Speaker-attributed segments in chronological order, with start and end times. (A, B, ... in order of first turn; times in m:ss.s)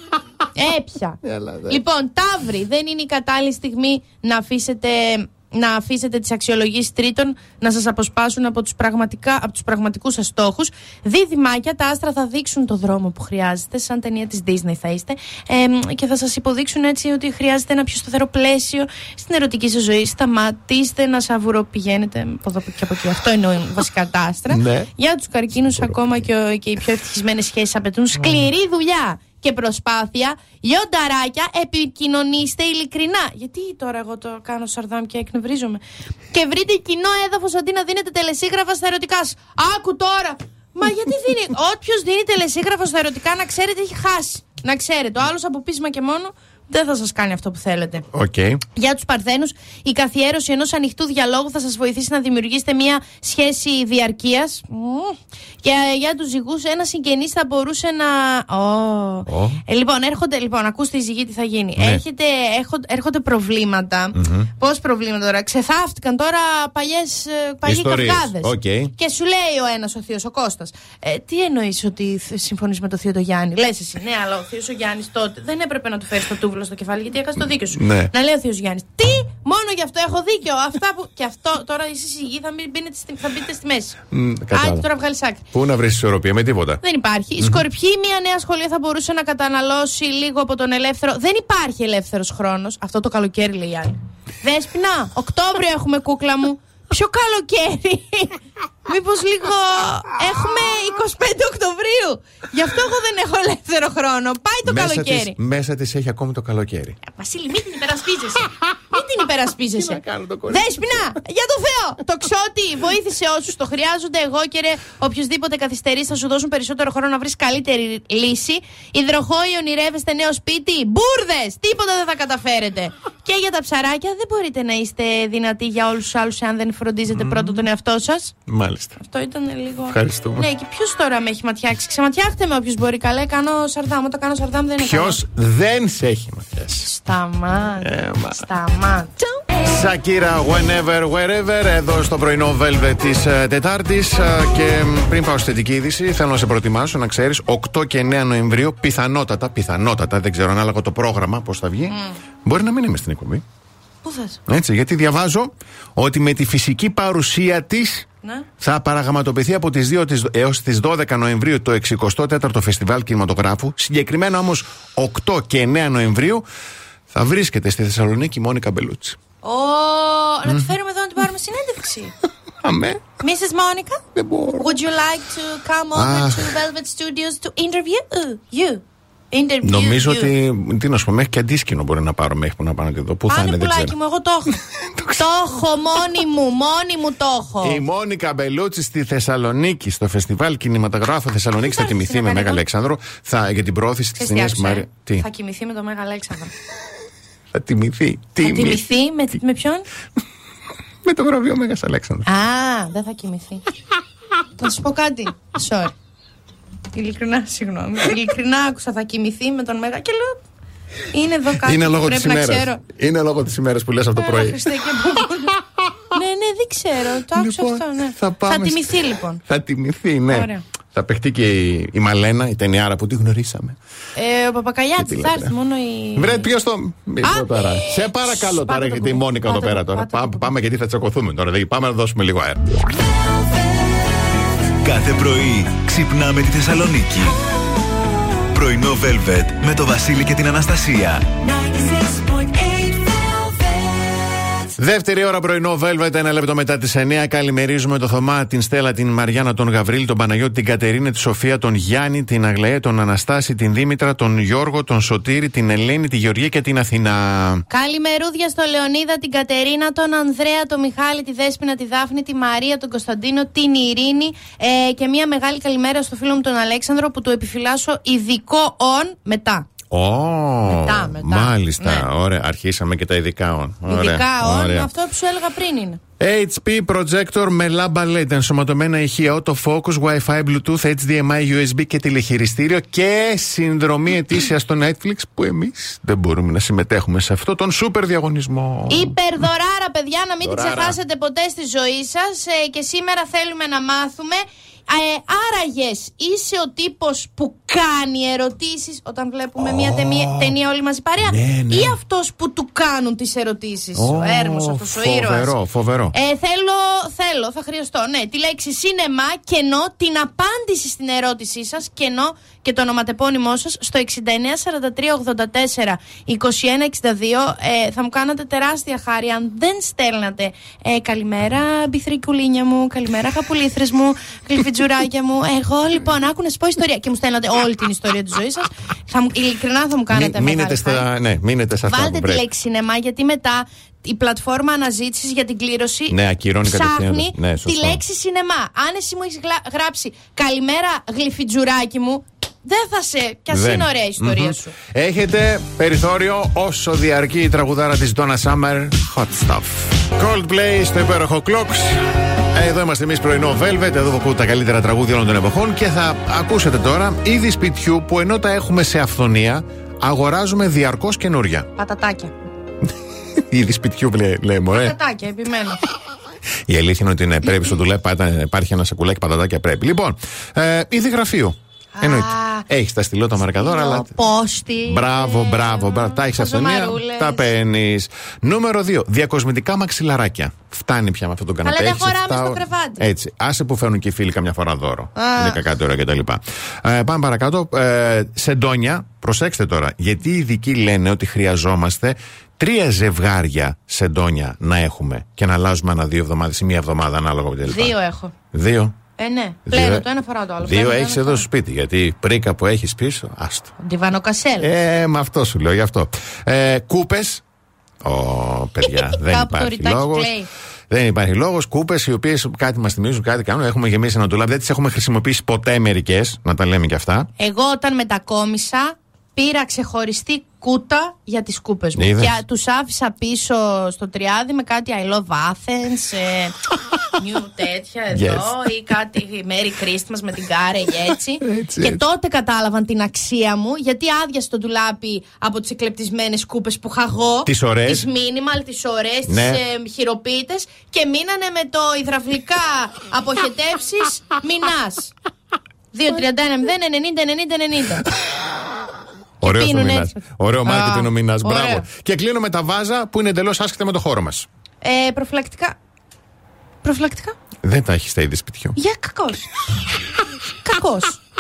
0:00.6-0:48.1 A
0:01.2-0:01.8 B
0:24.5-0:24.9 B
0:25.6-0:26.0 B
0:28.2-0:28.5 B
0:48.1-0:48.6 B
0:48.8-1:24.0 A
0:59.3-0:59.6 B
1:04.1-1:04.5 B
1:07.6-1:08.9 B
1:17.7-1:18.1 B
1:24.1-1:24.9 B
1:24.5-1:25.4 A
1:25.5-1:26.8 B
1:26.8-1:45.4 A
1:27.4-1:27.7 B
1:44.6-1:47.0 B
1:47.0-2:08.4 A
1:49.8-1:51.2 B
2:07.1-2:07.7 B
2:08.5-2:09.0 B
2:09.0-2:15.2 A
2:09.9-2:10.5 B
2:14.8-2:16.9 B
2:16.8-2:19.2 A
2:17.8-2:18.5 B
2:19.6-2:33.4 B
2:31.9-2:32.2 A
2:34.0-2:34.4 A
2:34.5-2:38.1 B
2:38.6-2:46.4 B
2:47.1-2:49.2 B
2:49.4-2:52.1 A
2:52.6-2:53.0 B
2:53.2-2:54.0 A
2:54.2-2:54.8 B
2:54.6-3:00.3 A
2:56.0-2:56.6 B
2:59.6-3:04.0 B
3:03.3-3:04.6 A
3:04.7-3:05.2 B
3:05.2-3:07.8 A
3:07.6-3:15.3 B
3:11.6-3:12.6 A
3:14.2-3:16.5 A
3:17.5-3:18.8 B
3:18.4-3:19.9 A
3:21.0-3:22.3 B
3:22.2-3:23.6 A
3:24.6-3:25.9 A
3:26.9-3:30.4 A
3:31.1-3:32.8 A
3:31.6-3:34.6 B
3:34.2-3:35.6 A
3:36.1-3:39.4 A
3:37.4-3:43.8 B
3:40.3-3:40.6 A
3:44.2-3:46.5 A
3:45.0-3:45.5 B
3:46.2-3:52.7 B
3:47.2-3:50.5 A
3:54.8-3:57.4 C
3:58.4-4:01.9 C
4:02.6-4:03.4 C
4:04.8-4:17.6 B
4:17.7-4:29.7 A
4:29.9-4:34.9 B
4:30.7-4:32.1 A
4:33.8-4:36.0 A
4:36.2-4:49.2 B
4:48.9-5:05.6 A
4:50.4-4:51.0 B
4:59.6-5:00.6 B
5:01.2-5:02.0 B
5:04.0-5:06.2 B
5:06.1-5:31.1 A
5:30.1-5:32.5 B
5:31.9-5:44.8 A
5:36.1-5:38.0 B
5:43.5-6:01.7 B
6:01.8-6:02.3 A
6:03.4-6:05.0 B
6:04.7-6:05.8 A
6:06.7-6:14.1 B
6:12.0-6:12.7 A
6:13.5-6:17.5 A
6:14.8-6:38.0 B
6:21.6-6:23.1 A
6:25.2-6:25.6 A
6:37.7-6:38.3 A
6:38.5-6:39.0 B
6:39.2-6:41.5 A
6:39.7-6:40.1 B
6:40.6-6:43.7 B
6:43.8-6:44.7 A
6:44.6-6:47.4 B
6:48.0-6:50.3 B
6:48.8-6:50.5 A
6:50.9-6:57.3 B
6:57.4-7:06.6 A
7:02.0-7:02.4 B
7:07.2-7:25.1 A
7:08.1-7:08.5 B
7:11.4-7:12.0 B
7:17.5-7:18.1 B
7:19.3-7:19.6 B
7:25.9-7:28.1 A
7:29.4-7:34.5 B
7:29.4-7:31.9 A
7:34.8-7:35.8 A
7:36.8-7:37.4 A
7:37.6-7:38.8 B
7:38.8-7:39.6 A
7:40.6-7:41.2 A